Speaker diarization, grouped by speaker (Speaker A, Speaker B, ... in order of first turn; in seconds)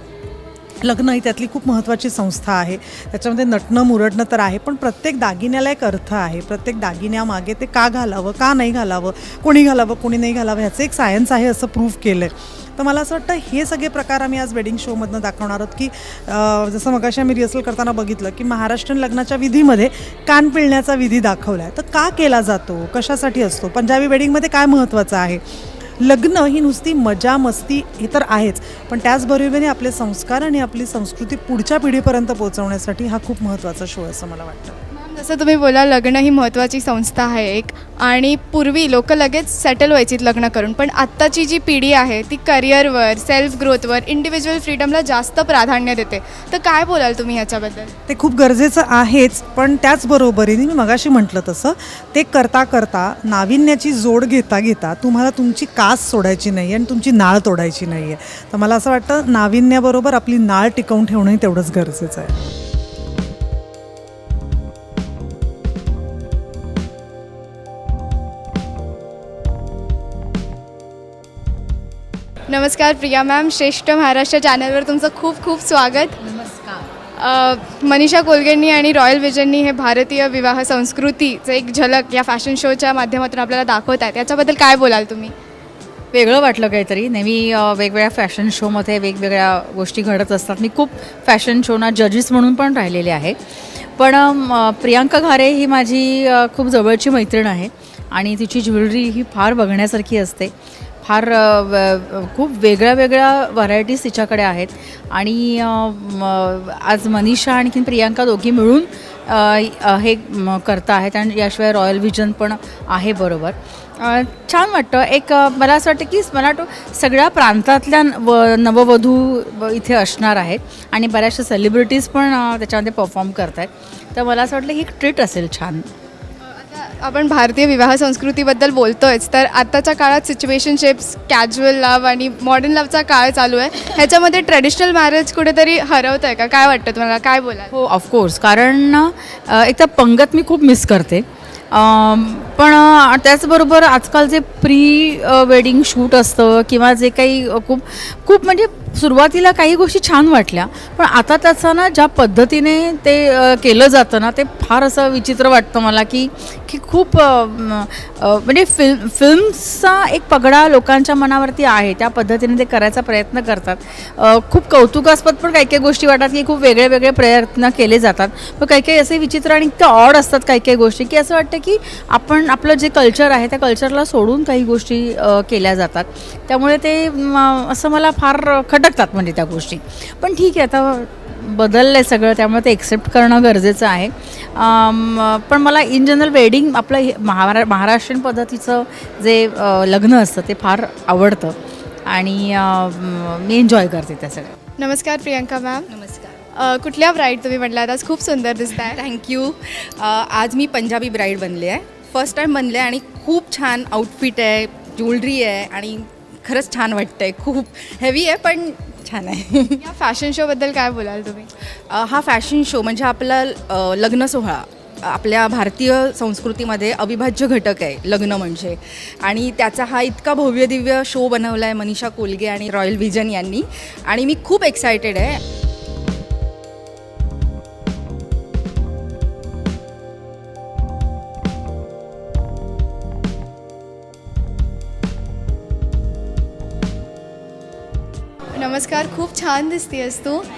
Speaker A: 0.8-25.4, 26.0-34.8, 48.1-62.3
Speaker B: 34.9-47.9, 72.5-76.2, 77.2-85.3, 126.4-137.7, 194.8-195.9, 196.6-199.0, 209.8-211.5, 238.6-240.4
Speaker C: 86.1-93.4, 94.0-100.5, 101.0-125.9, 137.7-191.5, 192.1-194.5
Speaker D: 195.9-196.4, 198.9-209.8, 211.9-225.4